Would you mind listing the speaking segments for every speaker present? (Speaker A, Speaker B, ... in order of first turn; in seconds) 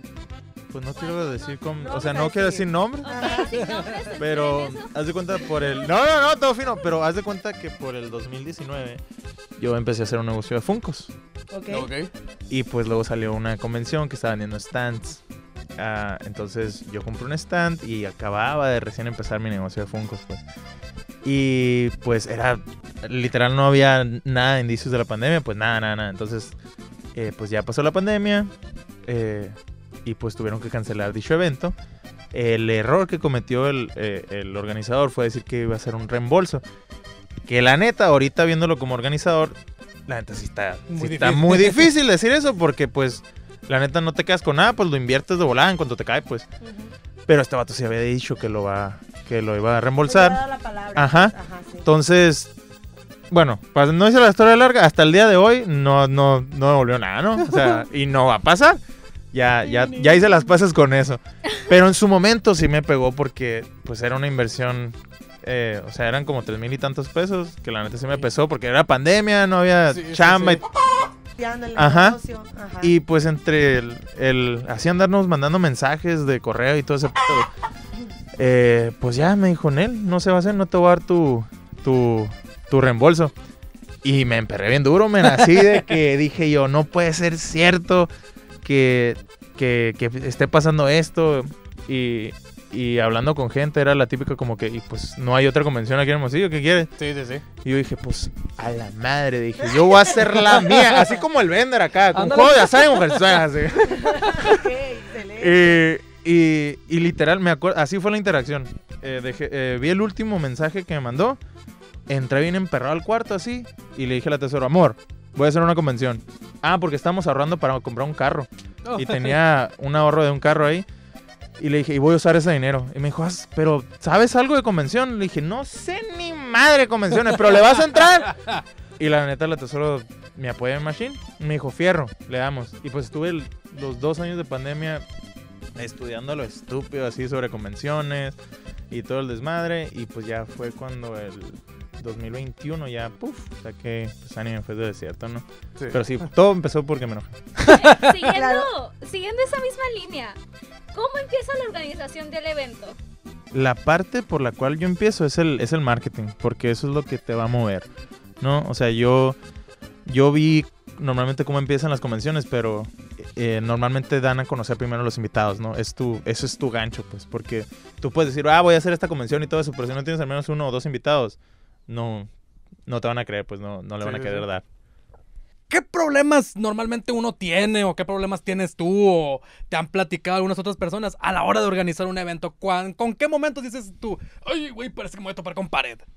Speaker A: 0.7-3.5, 4.2-9.0, 9.6-11.1, 12.5-15.2, 15.8-20.4, 21.2-26.6, 27.1-28.5, 29.1-31.7, 32.3-36.6, 37.5-46.5, 47.3-50.4, 50.9-52.5, 53.3-58.8, 59.3-70.6, 71.8-72.2, 72.8-77.5, 78.4-83.3, 84.0-88.1, 88.6-96.9, 97.6-104.6, 105.4-111.4, 112.1-120.8, 121.6-128.4, 129.0-135.0, 135.8-138.4, 138.9-147.7, 153.5-157.9, 158.4-159.4, 160.1-171.4, 171.9-172.3, 172.8-174.6
Speaker B: 0.9-1.6, 3.0-5.8, 147.7-150.4, 150.9-153.0
Speaker C: 1.8-3.6, 11.5-11.9, 46.6-46.9, 50.0-51.8, 71.4-72.9, 103.9-105.8, 148.3-148.7
Speaker D: 3.5-4.0, 11.7-12.1, 40.9-41.9, 57.5-57.8, 59.6-60.3, 69.9-70.6, 97.0-97.4, 102.1-103.4, 118.8-119.4, 147.7-148.1, 174.0-174.4, 175.7-186.1